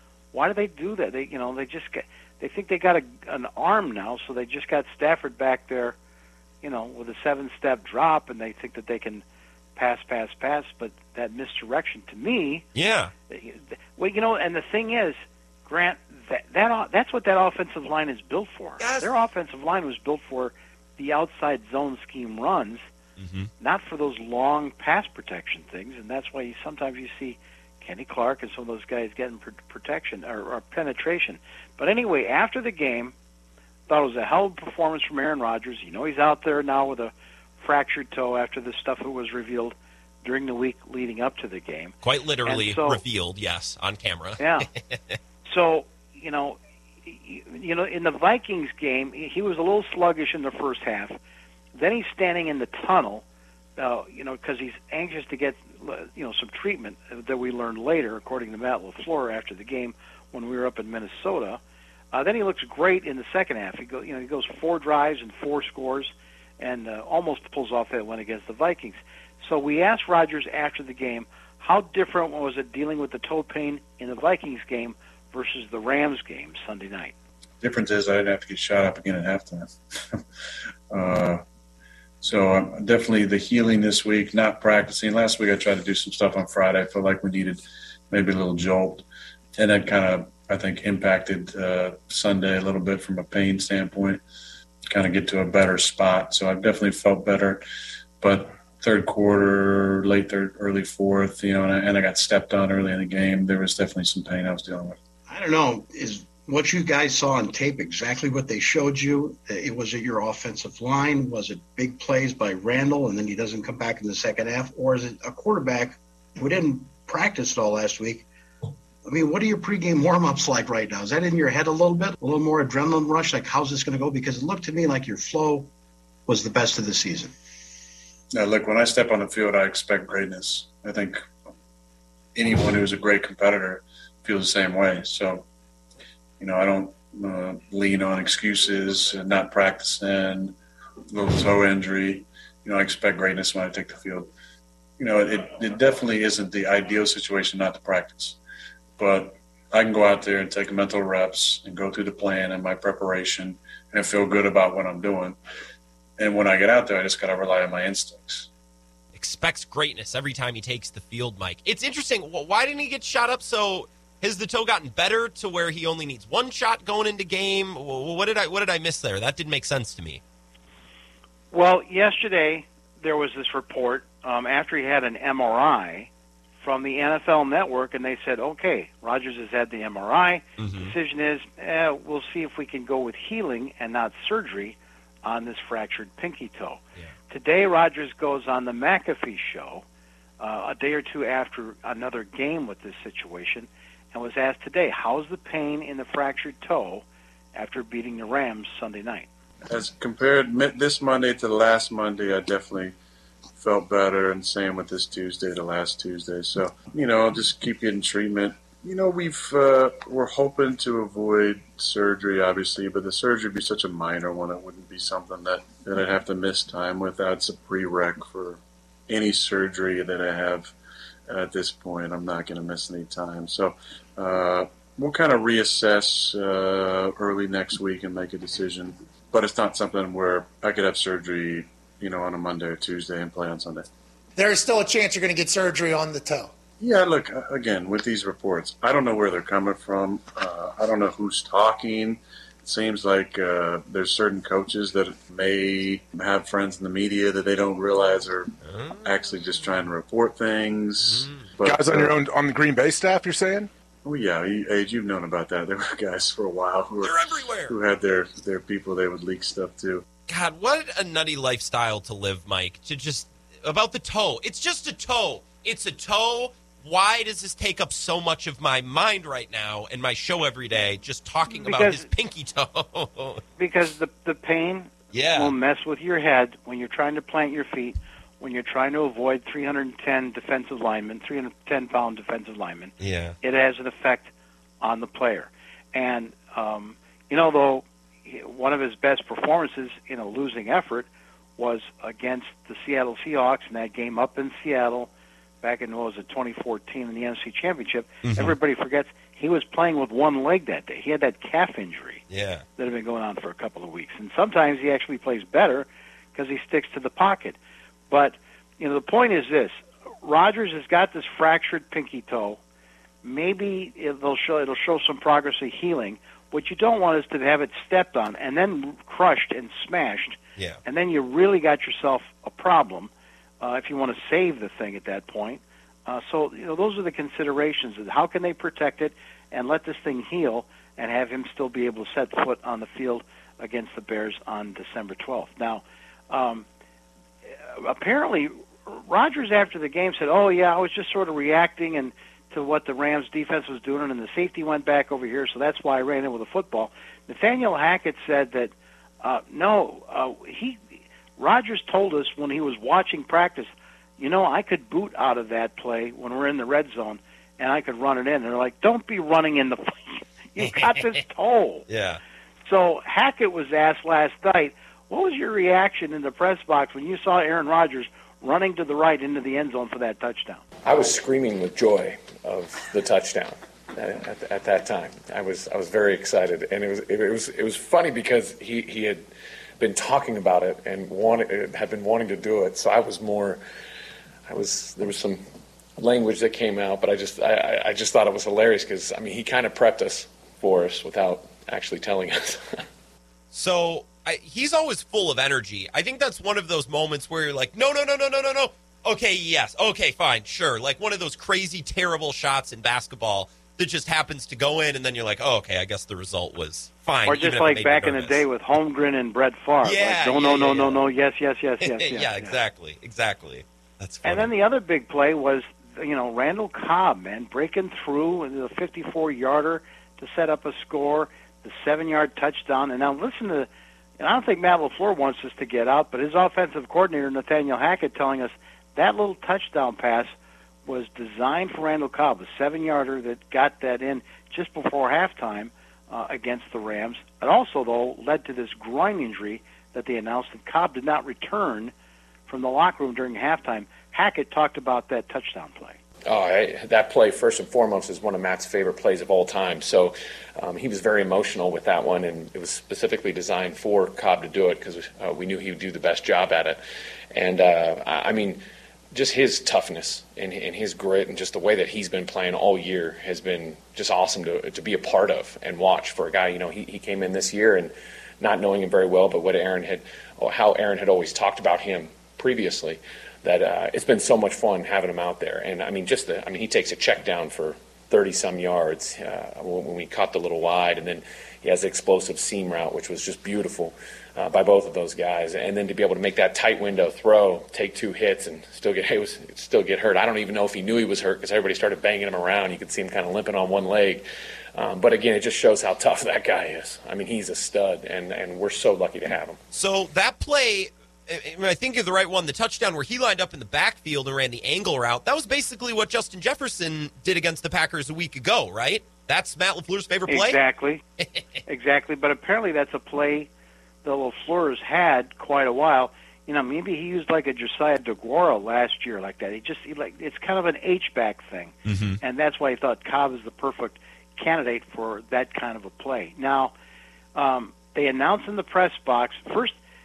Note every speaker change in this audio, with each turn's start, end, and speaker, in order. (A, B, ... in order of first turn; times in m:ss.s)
0:00.3-0:06.0 A
0:06.6-0:09.2 A
0:09.8-0:12.6 A
0:12.8-0:13.1 B
0:13.3-0:22.9 A
0:18.8-0:19.2 B
0:23.2-0:23.5 B
0:23.6-0:33.1 A
0:33.9-0:42.0 A
0:42.0-0:45.2 B
0:42.5-0:43.0 A
0:44.4-0:44.7 A
0:45.4-0:51.2 A
0:51.7-0:53.2 A
0:53.8-1:01.6 A
1:02.1-1:17.1 A
1:17.6-1:20.2 C
1:20.9-1:21.4 C
1:22.2-1:29.0 C
1:29.6-1:34.2 C
1:34.9-1:37.6 C
1:38.2-1:45.0 C
1:45.3-1:58.3 D
1:59.0-2:05.7 D
2:06.3-2:07.3 D
2:08.3-2:11.2 C
2:12.4-2:15.4 C
2:16.4-2:20.6 C
2:21.1-2:24.3 C
2:25.0-2:28.4 C
2:29.0-2:35.4 C
2:36.2-2:38.5 C
2:39.2-2:50.2 B
2:51.5-2:56.1 A
2:56.6-3:09.8 A
3:00.6-3:01.0 B
3:10.4-3:19.3 A
3:19.7-3:22.9 C
3:23.6-3:40.7 C
3:41.3-3:53.9 C
3:54.4-3:56.5 E
3:56.8-4:08.5 C
4:08.6-4:09.1 B
4:09.0-4:12.1 C
4:11.0-4:11.5 B
4:11.6-4:13.7 F
4:14.0-4:20.0 C
4:17.0-4:17.8 B
4:20.3-4:33.4 B
4:31.5-4:32.1 A
4:33.6-4:44.3 A
4:35.1-4:35.6 B
4:43.0-4:43.4 B
4:44.8-4:51.1 A
4:51.6-4:55.1 A
4:55.6-5:02.2 A
4:58.2-4:58.6 B
5:02.3-5:02.6 B
5:02.8-5:07.6 A
5:08.1-5:12.6 A
5:13.2-5:23.1 A
5:23.6-5:36.6 A
5:37.7-5:50.8 A
5:51.4-6:01.8 A
6:00.6-6:01.2 B
6:01.9-6:02.2 B
6:02.7-6:10.6 A
6:10.8-6:19.2 G
6:19.8-6:23.6 G
6:24.5-6:25.4 G
6:26.0-6:32.8 G
6:33.5-6:48.4 B
6:47.2-6:52.6 A
6:49.8-6:51.0 B
6:51.8-6:54.5 B
6:54.2-7:03.7 A
7:04.2-7:10.3 A
7:10.9-7:21.9 A
7:22.5-7:26.0 A
7:26.3-7:36.8 G
7:37.3-7:38.6 G
7:39.1-8:19.6 G
8:19.7-8:30.6 B
8:30.3-8:31.0 A
8:31.2-8:31.6 B
8:31.7-8:33.5 A
8:34.0-8:46.7 A
8:41.8-8:42.2 B
8:47.4-8:49.8 A